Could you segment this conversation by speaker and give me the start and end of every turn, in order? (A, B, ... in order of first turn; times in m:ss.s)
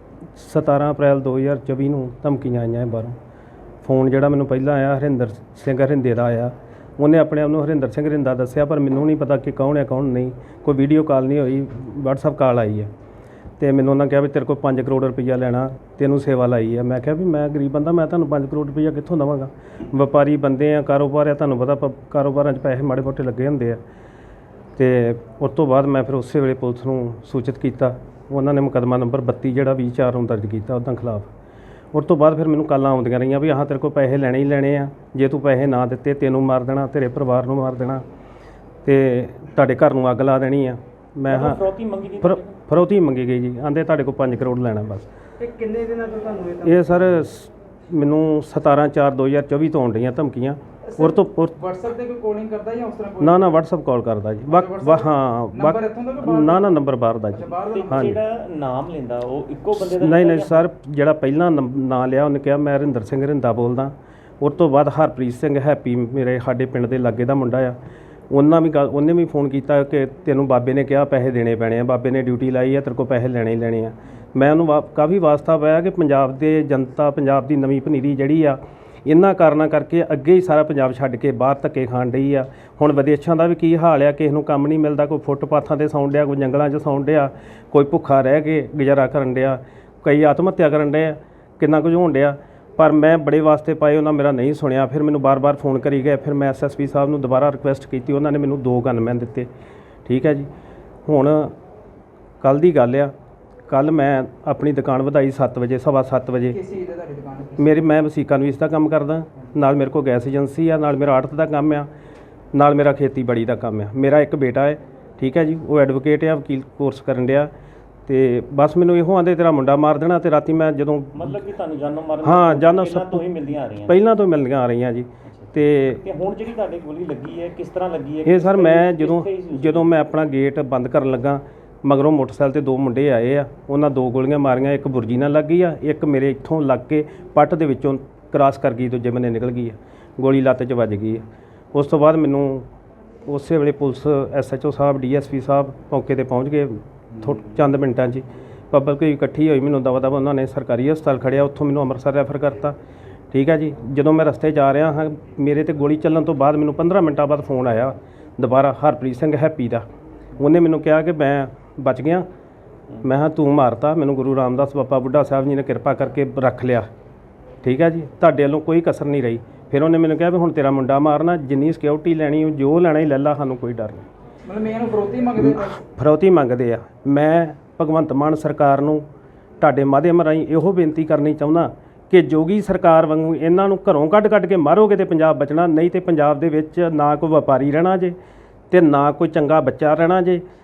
0:00.4-0:03.2 A
0:03.8-0:12.9 A
0:13.6-0:23.8 A
0:24.8-0:31.3 A
0:31.9-0:38.0 A
0:38.8-0:41.6 A
0:41.3-0:42.6 B
0:42.2-0:45.1 A
0:45.4-0:46.8 C
0:46.6-0:51.6 A
0:50.9-0:53.4 C
0:53.2-0:58.2 A
0:54.5-0:56.8 C
0:57.3-0:58.2 C
0:57.7-1:00.6 B
0:59.8-1:07.8 A
1:08.3-1:39.5 A
1:40.1-1:40.5 A
1:41.1-1:41.6 A
1:42.4-1:43.1 A
1:43.7-1:46.6 A
1:46.5-1:47.7 C
1:47.6-1:51.9 A
1:52.5-1:57.5 A
1:58.1-2:01.4 A
2:01.1-2:04.0 B
2:02.2-2:03.2 A
2:03.9-2:06.0 A
2:05.2-2:09.9 B
2:08.2-2:21.2 A
2:21.7-2:22.7 A
2:23.3-2:32.8 A
2:33.3-2:39.8 A
2:40.4-2:42.3 A
2:43.0-2:46.9 A
2:47.6-2:54.1 A
2:54.4-2:55.8 C
2:55.4-2:59.0 A
2:59.6-3:08.2 A
3:08.7-3:10.4 A